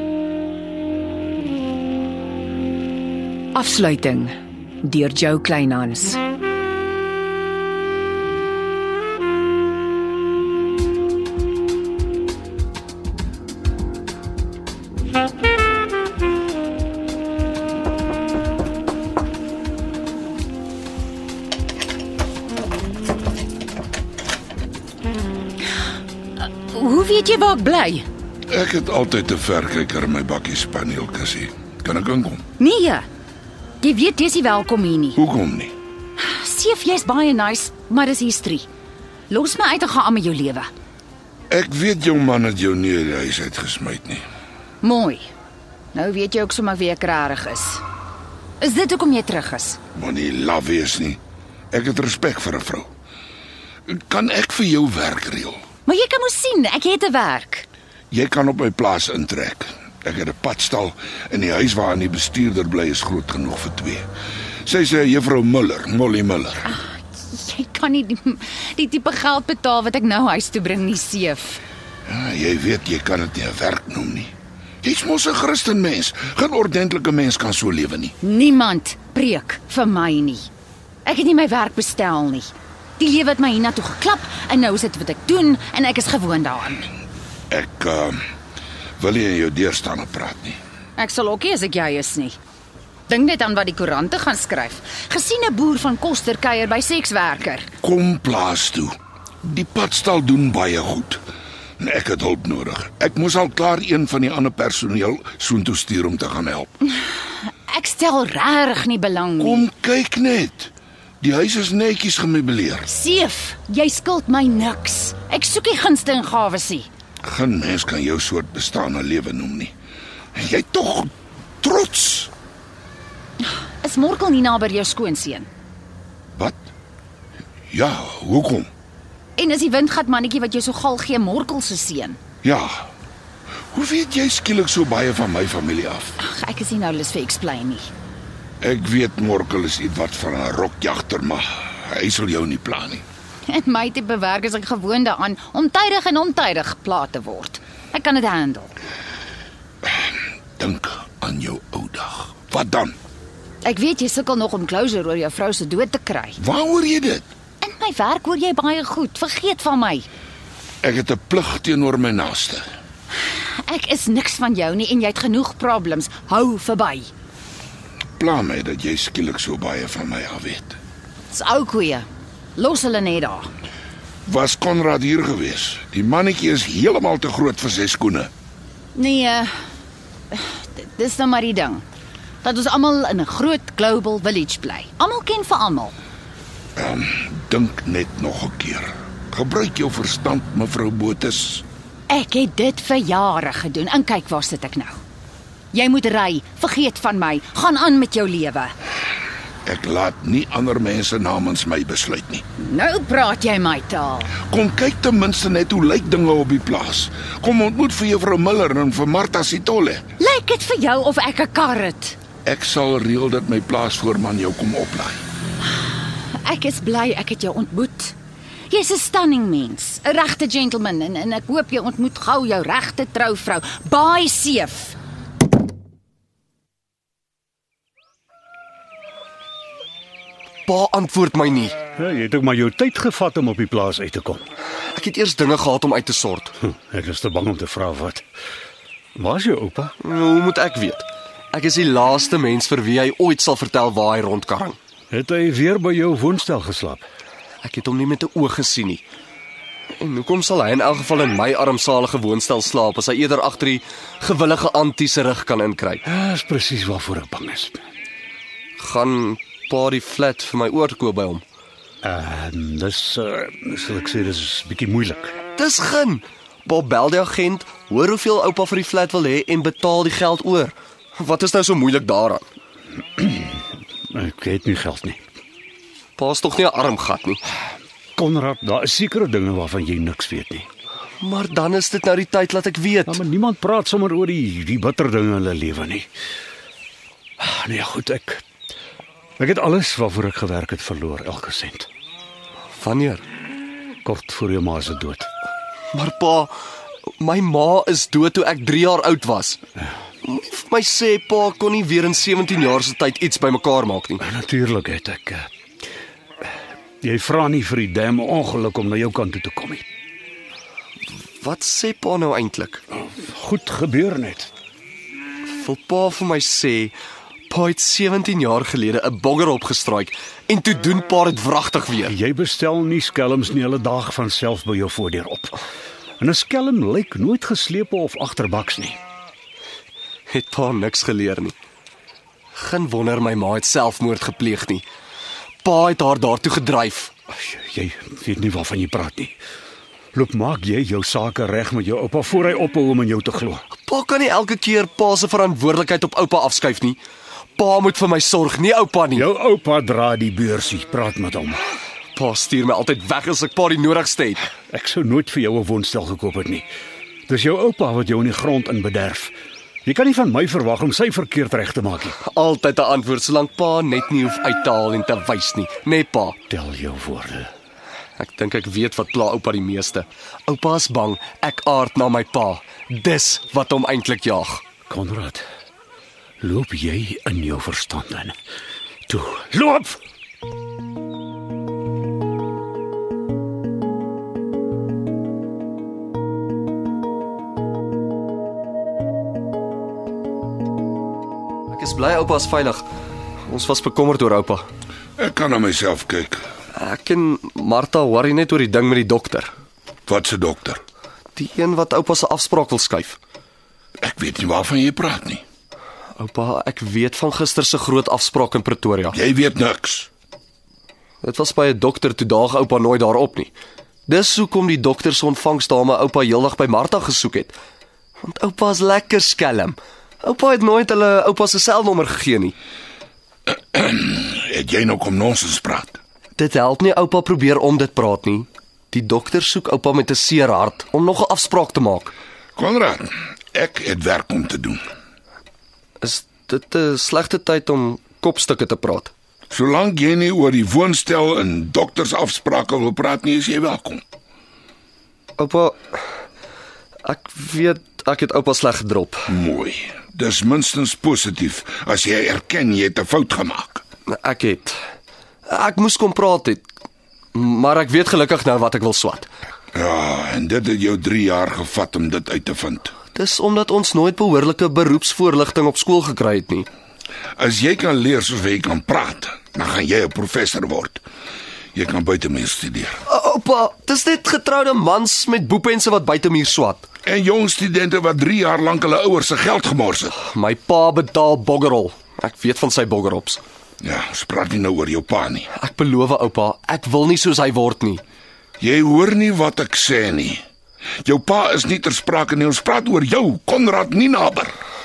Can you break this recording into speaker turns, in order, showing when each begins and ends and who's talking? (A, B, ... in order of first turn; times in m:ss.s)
0:03.5-0:04.3 A
0:04.8-0:06.2 A
0:26.6-0:28.0 B
0:28.5-0:32.4 C
0:32.6-0:33.0 B
0:33.8-0:35.2 B
0:35.2-0:35.7 C
0:36.2-0:38.7 B
0:39.3-0:40.7 B
0:41.5-0:44.2 C
0:44.8-0:45.3 B
0:45.9-0:47.8 B
0:48.6-0:49.8 B
0:49.9-0:51.2 C
0:51.7-0:52.9 C
0:53.9-0:55.6 C
0:55.8-0:57.7 B
0:58.1-1:04.1 C
1:04.6-1:06.7 C
1:06.6-1:11.6 B
1:12.0-1:18.1 C
1:18.2-1:20.5 B
1:21.0-1:26.9 B
1:27.5-1:28.2 C
1:29.0-1:30.6 C
1:31.0-1:32.4 B
1:33.1-1:37.7 B
1:37.8-1:41.2 C
1:41.8-1:46.7 C
1:47.7-1:49.7 B
1:49.4-1:52.9 C
1:52.8-1:56.9 B
1:57.2-1:59.7 C
2:00.3-2:02.3 C
2:03.4-2:05.5 B
2:06.4-2:06.6 C
2:07.7-2:08.7 C
2:09.4-2:12.2 B
2:12.4-2:12.9 C
2:13.7-2:16.2 C
2:16.2-2:17.9 B
2:18.6-2:23.0 C
2:23.5-2:28.7 B
2:29.8-2:33.0 C
2:33.6-2:36.4 B
2:36.4-2:37.3 C
2:37.6-2:40.1 B
2:40.8-2:42.6 C
2:43.3-2:47.1 B
2:48.2-2:50.8 C
2:51.3-2:53.5 B
2:54.2-2:58.3 C
2:58.9-2:59.5 B
3:00.3-3:01.8 B
3:02.4-3:05.9 B
3:06.8-3:11.6 C
3:12.1-3:15.0 B
3:15.7-3:18.7 B
3:19.6-3:22.4 C
3:22.6-3:24.3 B
3:24.5-3:30.0 C
3:30.2-3:32.2 B
3:32.4-3:35.2 C
3:35.7-3:38.2 B
3:38.7-3:45.0 B
3:50.7-3:51.8 D
3:52.0-3:54.4 E
3:54.9-3:56.5 D
3:56.7-3:58.2 E
3:59.2-3:59.9 E
4:00.0-4:04.8 D
4:05.1-4:07.0 E
4:07.6-4:09.0 D
4:10.0-4:16.0 D
4:16.0-4:17.8 E
4:18.8-4:21.4 D
4:22.0-4:25.4 E
4:25.6-4:32.5 D
4:33.2-4:33.5 E
4:34.1-4:35.2 E
4:36.2-4:37.4 D
4:38.2-4:40.7 E
4:41.2-4:43.2 D
4:43.1-4:46.1 E
4:47.4-4:48.4 E
4:49.4-4:51.9 E
4:52.8-4:53.2 D
4:54.0-4:55.3 E
4:55.9-4:56.5 D
4:57.2-4:59.6 D
5:00.2-5:04.2 D
5:04.2-5:05.5 E
5:07.0-5:09.8 E
5:11.4-5:12.8 D
5:13.2-5:14.5 E
5:15.4-5:16.9 D
5:17.5-5:22.1 D
5:22.1-5:25.6 E
5:26.2-5:29.0 E
5:30.3-5:31.5 D
5:32.5-5:34.8 D
5:35.6-5:37.1 D
5:37.3-5:39.3 E
5:40.1-5:43.6 E
5:43.8-5:47.0 D
5:47.6-5:49.3 D
5:49.2-5:51.6 E
5:52.2-5:54.4 D
5:54.7-5:56.6 E
5:57.3-5:59.3 E
5:59.8-6:02.2 E
6:02.2-6:06.4 D
6:06.5-6:07.5 E
6:08.2-6:14.6 D
6:14.9-6:15.4 E
6:16.4-6:18.3 E
6:19.1-6:20.0 E
6:31.7-6:32.9 D
6:33.5-6:34.6 D
6:35.2-6:36.4 C
6:36.8-6:39.5 D
6:40.1-6:40.8 C
6:41.4-6:43.2 D
6:44.0-6:45.4 C
6:46.2-6:49.2 D
6:49.1-6:50.1 C
6:51.2-6:53.5 D
6:54.1-6:57.6 D
6:58.2-7:02.5 D
7:03.7-7:06.0 C
7:06.4-7:12.1 D
7:12.6-7:14.8 C
7:16.0-7:19.1 D
7:19.5-7:24.0 C
7:25.4-7:25.8 D
7:27.0-7:29.3 D
7:29.3-7:33.8 C
7:34.1-7:34.8 D
7:35.4-7:36.7 D
7:37.3-7:39.3 D
7:39.7-7:42.9 C
7:43.1-7:46.7 D
7:47.4-7:51.0 C
7:51.7-7:53.0 C
7:53.1-7:56.9 D
7:57.0-8:00.1 C
8:00.2-8:03.4 D
8:03.8-8:05.5 C
8:05.5-8:08.0 D
8:08.6-8:10.4 C
8:11.0-8:14.5 C